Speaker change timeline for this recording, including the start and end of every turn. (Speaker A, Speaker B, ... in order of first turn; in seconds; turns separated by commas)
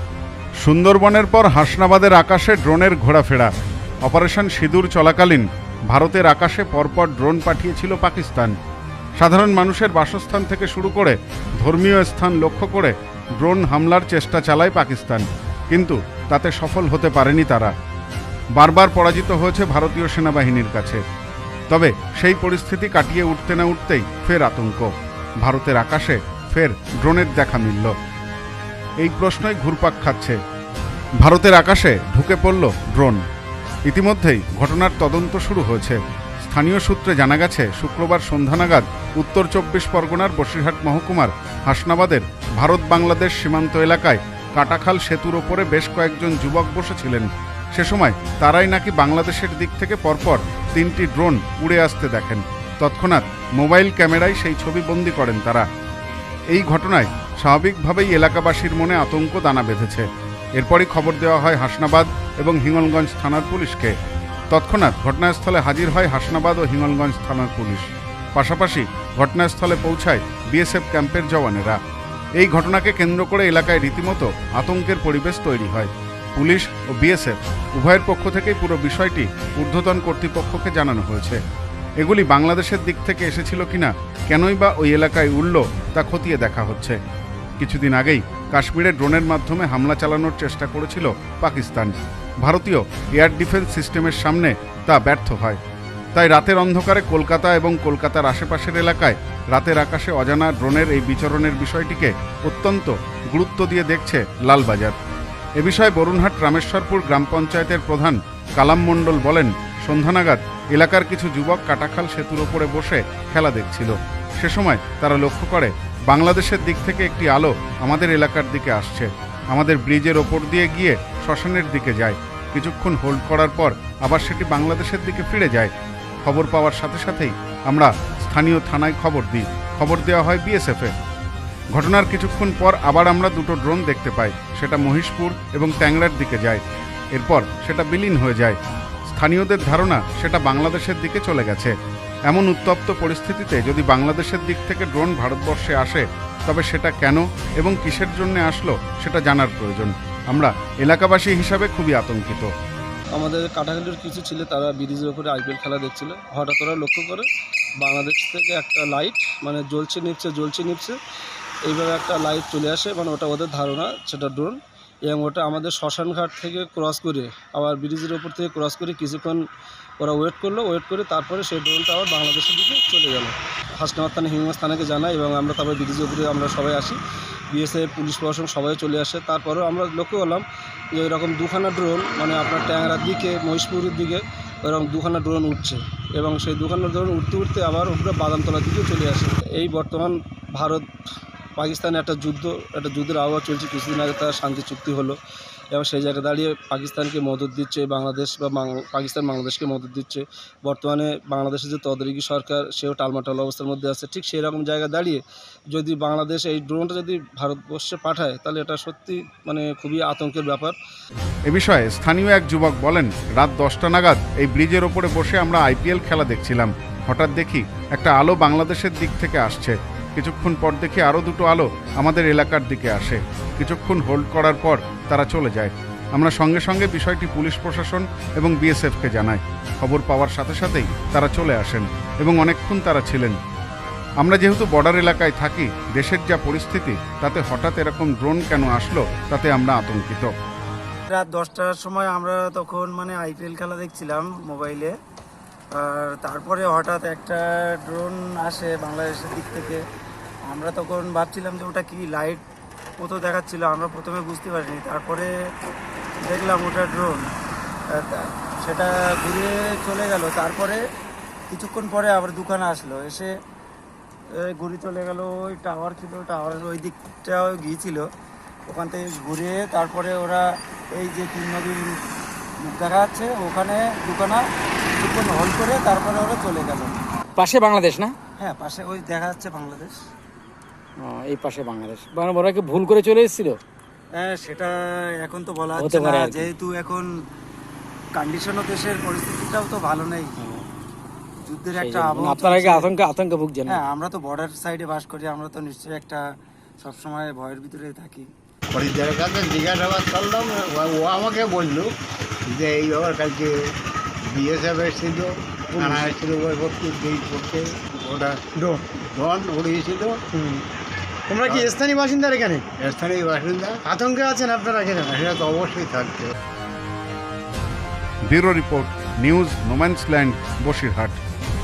Speaker A: 0.6-3.5, Speaker A: 4.0-8.5, Speaker A: 9.2-17.7, Speaker A: 18.6-21.0, Speaker A: 21.7-24.9, Speaker A: 25.4-27.9, Speaker A: 29.0-30.4, Speaker A: 31.2-33.2, Speaker A: 33.9-55.6, Speaker A: 56.5-60.0, Speaker A: 60.6-63.9, Speaker A: 64.5-71.8, Speaker A: 72.4-81.4, Speaker A: 82.0-87.0, Speaker A: 87.6-95.6, Speaker A: 96.2-105.0, Speaker A: 105.6-125.7, Speaker A: 126.2-130.9, Speaker A: 131.7-136.6, Speaker A: 137.1-138.6, Speaker A: 139.1-141.7, Speaker A: 142.3-152.5, Speaker B: 153.2-157.3, Speaker B: 157.8-160.9, Speaker B: 161.7-169.4, Speaker B: 170.0-177.0, Speaker B: 177.5-180.4, Speaker B: 180.9-190.8, Speaker B: 191.6-195.2, Speaker B: 195.7-205.2, Speaker B: 205.7-210.8, Speaker A: 211.5-233.4, Speaker A: 234.2-240.3, Speaker C: 241.1-244.9, Speaker C: 245.8-249.8, Speaker C: 250.5-252.4, Speaker C: 253.0-255.3, Speaker C: 256.2-257.3, Speaker C: 257.9-260.8, Speaker C: 261.5-263.3, Speaker C: 264.4-268.1, Speaker C: 268.7-270.4, Speaker C: 270.9-271.9, Speaker C: 272.6-274.4, Speaker C: 275.0-277.0, Speaker D: 277.4-278.1, Speaker C: 278.4-280.1, Speaker D: 281.0-283.6, Speaker C: 284.2-287.1, Speaker D: 285.8-286.5, Speaker C: 288.1-290.4, Speaker C: 291.4-292.9, Speaker D: 291.7-293.8, Speaker C: 293.6-296.2, Speaker C: 296.8-298.3, Speaker E: 298.7-301.9, Speaker E: 302.5-303.5, Speaker E: 304.2-308.4, Speaker F: 305.8-306.1, Speaker E: 309.1-310.2, Speaker F: 310.3-310.6, Speaker F: 311.3-312.6, Speaker E: 311.4-311.8, Speaker E: 312.8-313.8, Speaker F: 313.8-315.1, Speaker E: 315.0-316.3, Speaker A: 318.3-321.2